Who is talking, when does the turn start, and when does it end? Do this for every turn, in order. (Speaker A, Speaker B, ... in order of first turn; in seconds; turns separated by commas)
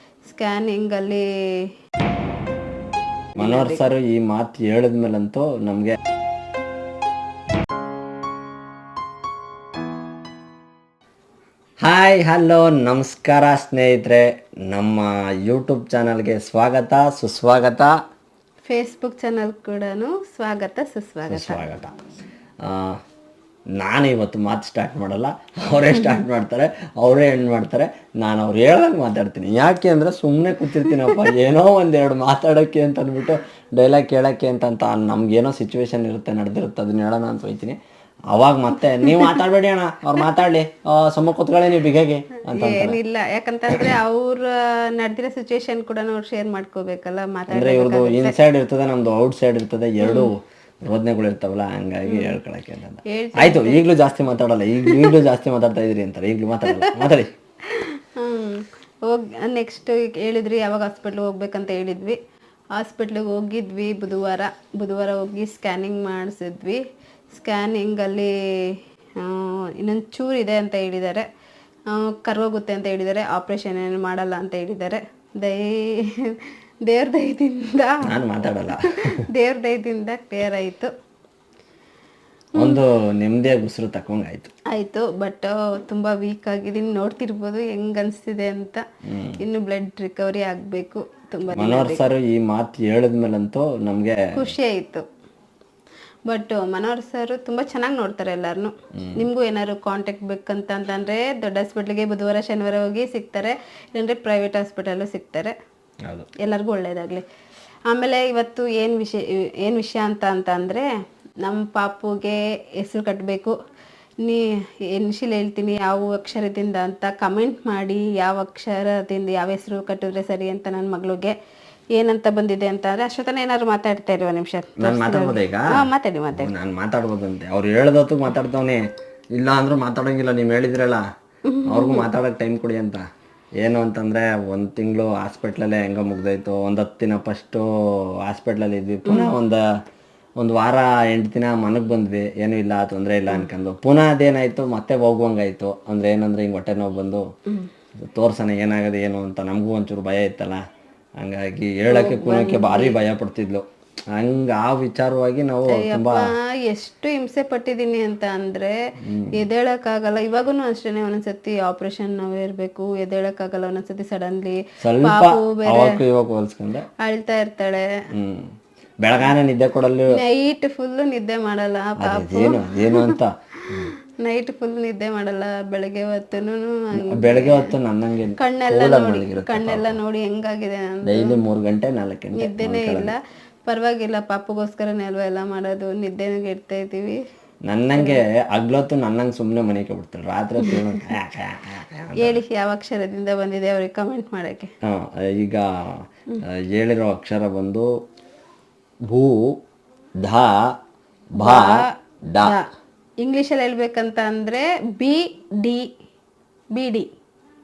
Speaker A: 0.2-1.7, Speaker A: 3.4-3.8, Speaker B: 3.4-6.0, Speaker B: 11.8-17.9, Speaker A: 18.7-21.6, Speaker B: 21.3-21.9, Speaker B: 22.6-23.0, Speaker B: 23.8-37.8, Speaker B: 38.3-43.0, Speaker A: 39.0-39.3, Speaker A: 42.5-48.3, Speaker B: 47.5-57.3, Speaker A: 50.0-50.3, Speaker A: 52.1-52.4, Speaker A: 53.0-53.9, Speaker A: 56.7-57.0, Speaker A: 57.6-62.2, Speaker A: 62.7-71.3, Speaker A: 71.9-78.1, Speaker B: 78.0-79.3, Speaker A: 78.8-80.9, Speaker B: 82.5-84.5, Speaker A: 84.7-88.8, Speaker B: 89.0-89.4, Speaker A: 89.4-92.0, Speaker B: 91.5-94.4, Speaker A: 94.3-95.0, Speaker A: 96.3-105.5, Speaker B: 98.9-99.2, Speaker B: 106.0-106.3, Speaker A: 106.4-107.2, Speaker A: 107.9-110.9, Speaker A: 111.4-113.6, Speaker A: 114.2-121.3, Speaker A: 121.9-126.5, Speaker B: 124.8-131.0, Speaker A: 131.5-132.1, Speaker B: 131.7-133.0, Speaker B: 133.6-139.6, Speaker A: 139.0-139.3, Speaker B: 140.4-147.2, Speaker B: 148.0-150.6, Speaker B: 151.2-156.3, Speaker A: 151.9-152.9, Speaker A: 155.7-158.8, Speaker B: 159.0-159.4, Speaker A: 159.3-166.0, Speaker B: 164.8-166.9, Speaker A: 167.0-168.0, Speaker B: 168.1-168.5, Speaker B: 169.0-170.2, Speaker A: 170.1-173.2, Speaker B: 172.0-173.9, Speaker A: 173.8-177.7, Speaker B: 176.9-180.0, Speaker A: 178.4-181.4, Speaker B: 181.1-183.1, Speaker A: 182.3-187.2, Speaker B: 187.7-192.4, Speaker A: 188.0-188.2, Speaker A: 192.2-194.7, Speaker B: 194.8-197.9, Speaker B: 199.1-199.6, Speaker B: 200.2-200.7, Speaker B: 201.4-202.6, Speaker A: 201.4-201.9, Speaker A: 203.2-205.9, Speaker A: 206.7-207.1